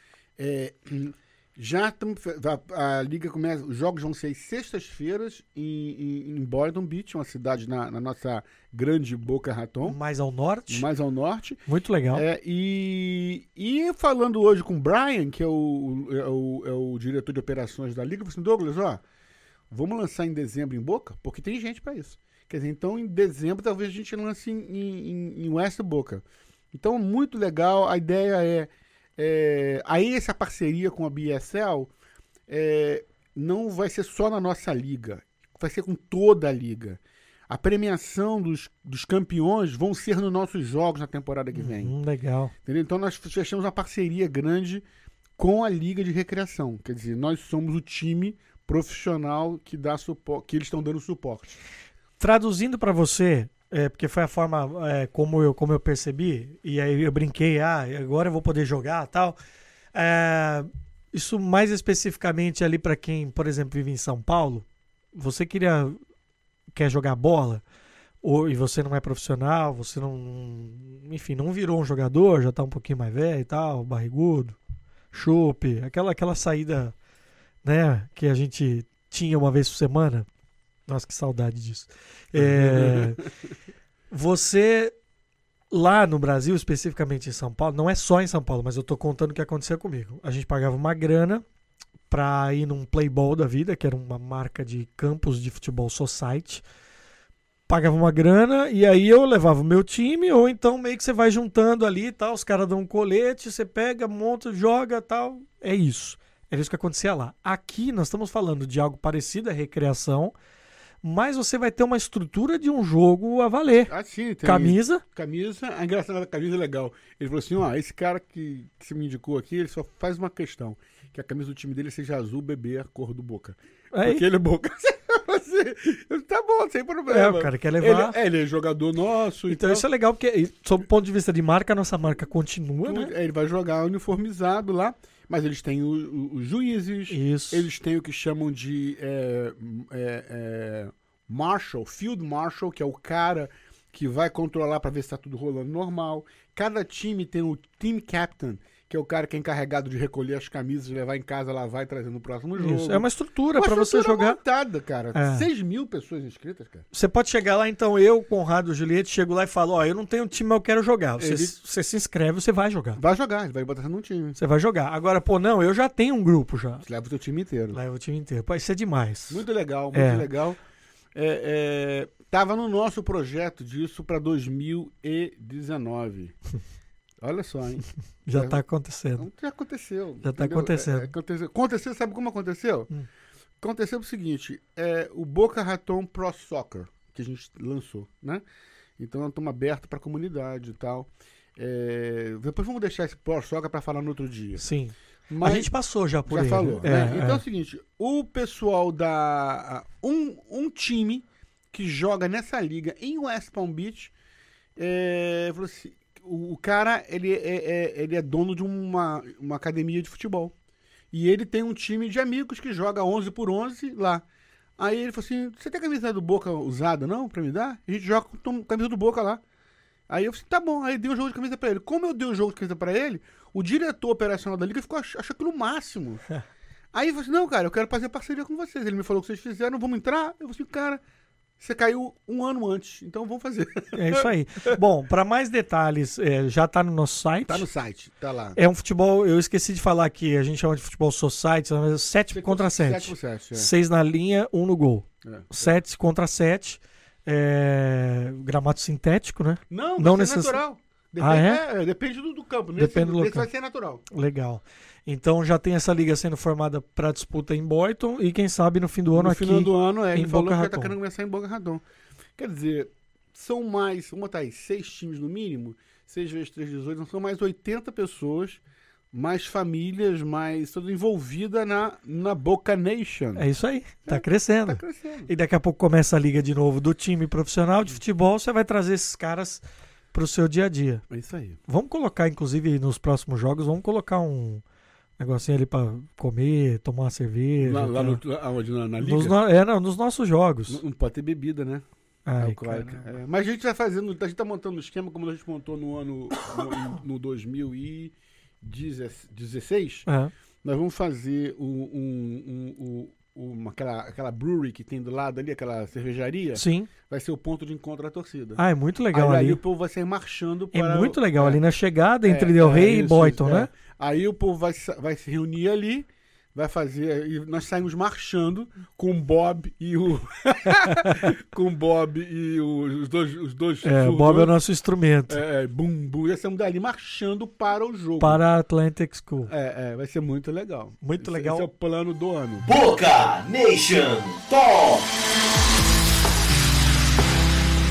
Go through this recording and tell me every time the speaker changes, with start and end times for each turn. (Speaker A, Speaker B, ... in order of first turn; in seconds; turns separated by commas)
Speaker A: 0.4-10.0, Speaker B: 9.8-10.9, Speaker A: 10.7-11.6, Speaker B: 11.7-12.2, Speaker A: 12.1-19.0, Speaker A: 19.7-31.9, Speaker A: 32.5-41.9, Speaker B: 41.5-42.5, Speaker A: 42.6-44.8, Speaker A: 45.4-51.6, Speaker B: 52.2-59.4, Speaker B: 59.9-66.0, Speaker B: 66.7-67.6, Speaker B: 68.2-74.5, Speaker B: 75.1-76.9, Speaker B: 77.6-80.3, Speaker B: 80.9-83.2, Speaker A: 82.3-83.3, Speaker B: 84.1-84.9, Speaker B: 85.7-91.4, Speaker B: 92.1-96.6, Speaker B: 97.7-110.3, Speaker B: 111.0-113.9, Speaker A: 113.9-129.8, Speaker B: 114.4-115.0, Speaker B: 123.9-124.2, Speaker B: 127.1-128.2, Speaker B: 129.5-133.1, Speaker A: 132.8-153.0, Speaker B: 137.1-137.7, Speaker B: 152.6-154.4, Speaker A: 153.6-156.8, Speaker B: 155.1-155.5, Speaker B: 156.9-163.0, Speaker A: 161.2-161.5, Speaker A: 162.9-164.4, Speaker B: 164.4-166.8, Speaker A: 166.8-167.8, Speaker B: 167.7-170.3, Speaker A: 169.3-170.6, Speaker A: 171.1-176.3, Speaker A: 177.2-178.6, Speaker B: 178.2-179.3, Speaker A: 179.2-182.9, Speaker B: 180.2-181.1, Speaker A: 183.6-188.4, Speaker A: 189.0-194.7, Speaker B: 194.6-197.4, Speaker A: 195.3-195.7, Speaker A: 196.2-204.1, Speaker A: 204.8-210.5, Speaker A: 211.1-214.2, Speaker A: 214.8-219.4, Speaker A: 220.1-226.2, Speaker A: 226.9-231.0, Speaker A: 231.6-234.3, Speaker B: 233.9-237.7, Speaker A: 237.5-238.6, Speaker B: 238.6-250.6, Speaker A: 242.3-243.7, Speaker A: 245.2-245.7, Speaker A: 249.7-254.0, Speaker B: 251.2-251.6, Speaker B: 252.8-253.5, Speaker B: 254.1-260.9, Speaker A: 259.1-261.8, Speaker A: 262.4-268.6, Speaker A: 269.1-273.4, Speaker B: 273.4-279.6, Speaker A: 274.1-275.3, Speaker B: 280.1-281.0, Speaker A: 281.1-281.6, Speaker B: 281.7-284.6, Speaker B: 285.2-288.2, Speaker A: 287.6-289.4, Speaker B: 289.0-290.8, Speaker A: 290.7-291.8, Speaker B: 292.2-293.0, Speaker A: 292.4-300.1, Speaker B: 300.1-300.3, Speaker A: 300.6-311.6, Speaker B: 306.5-306.9, Speaker B: 308.6-309.6, Speaker B: 310.7-313.7, Speaker A: 312.2-324.5, Speaker B: 320.8-321.2, Speaker B: 323.8-325.4, Speaker A: 325.3-328.4, Speaker B: 328.2-329.5, Speaker A: 329.5-332.6, Speaker B: 331.0-331.7, Speaker C: 332.7-335.2